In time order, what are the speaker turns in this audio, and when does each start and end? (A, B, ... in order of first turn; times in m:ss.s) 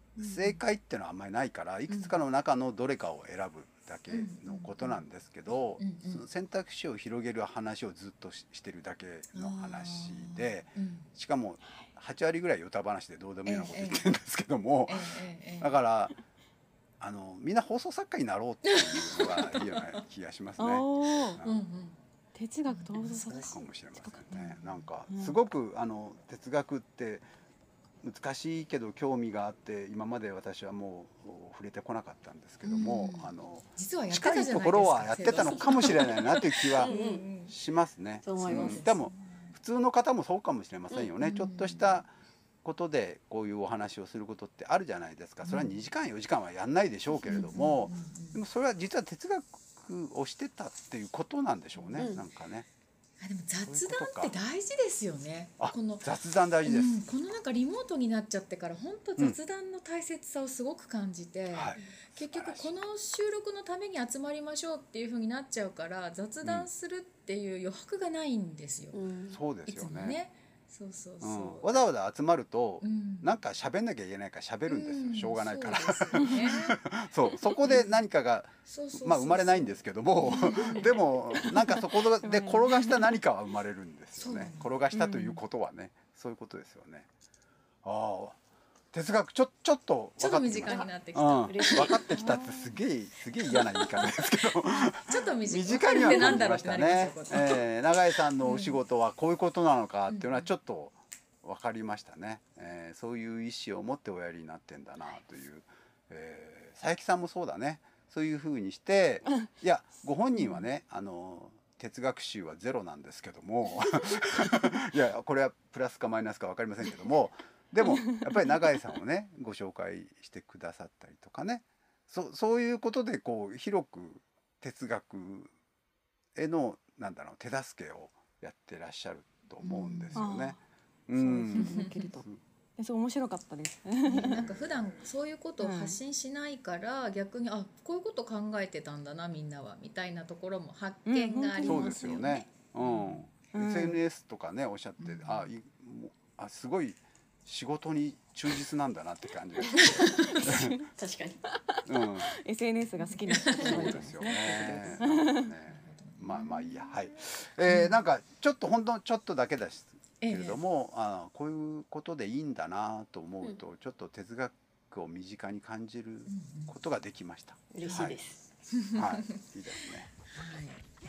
0:00.2-0:16.1 A
0:00.2-0:00.5 B
0:01.9-0:02.2 C
0:04.1-0:05.0 C
0:05.8-0:06.2 C
0:09.3-0:11.1 C
0:13.4-0:14.0 C
0:14.9-0:15.7 C
0:17.0-0:21.6 A
0:18.6-0:20.0 C
0:20.6-0:21.4 B
0:21.4-0:22.0 C
0:22.3-0:24.4 B
0:22.7-0:23.6 C
0:23.3-0:27.2 A
0:24.3-0:24.9 C
0:25.1-0:25.4 B
0:28.0-0:42.1 A
0:32.6-0:37.5 C
0:36.8-0:37.2 D
0:38.2-0:38.8 D
0:38.4-0:39.6 C
0:41.2-0:41.9 C
0:42.6-0:52.6 A
0:45.4-0:45.8 C
0:47.2-0:48.4 C
0:52.0-0:52.2 D
0:53.2-0:56.1 C
0:53.6-0:54.3 A
0:55.6-0:57.0 A
0:56.6-1:09.0 C
1:01.5-1:02.7 A
1:08.9-1:09.4 D
1:09.3-1:10.2 A
1:09.7-1:11.7 C
1:11.2-1:27.1 A
1:12.8-1:13.3 C
1:14.7-1:16.8 C
1:17.6-1:18.0 C
1:18.6-1:21.0 C
1:20.2-1:20.7 B
1:21.3-1:23.1 B
1:24.2-1:24.7 C
1:24.9-1:25.4 B
1:27.8-1:28.4 A
1:28.9-2:05.5 A
1:30.2-1:32.3 C
1:31.5-1:32.1 D
1:32.1-1:32.7 B
1:33.5-1:34.2 C
1:34.8-1:37.6 C
1:38.4-1:38.8 C
1:40.1-1:40.5 C
2:06.4-2:12.4 A
2:09.6-2:10.3 C
2:10.2-2:10.6 B
2:11.1-2:14.6 B
2:11.5-2:12.1 C
2:14.0-2:23.2 C
2:15.6-2:16.0 B
2:21.0-2:22.4 B
2:21.6-2:30.8 A
2:23.5-2:24.0 B
2:25.0-2:25.5 C
2:29.8-2:30.4 C
2:30.3-2:30.8 B
2:31.0-2:31.4 D
2:31.8-2:32.4 A
2:32.0-2:35.5 B
2:33.0-2:33.9 C
2:33.6-2:48.2 A
2:35.7-2:37.0 C
2:37.6-2:38.0 C
2:40.2-2:40.6 C
2:46.3-2:46.7 C
2:47.7-2:48.4 D
2:47.8-2:48.1 C
2:48.7-2:49.4 C
2:48.9-2:50.0 A
2:50.2-2:50.8 C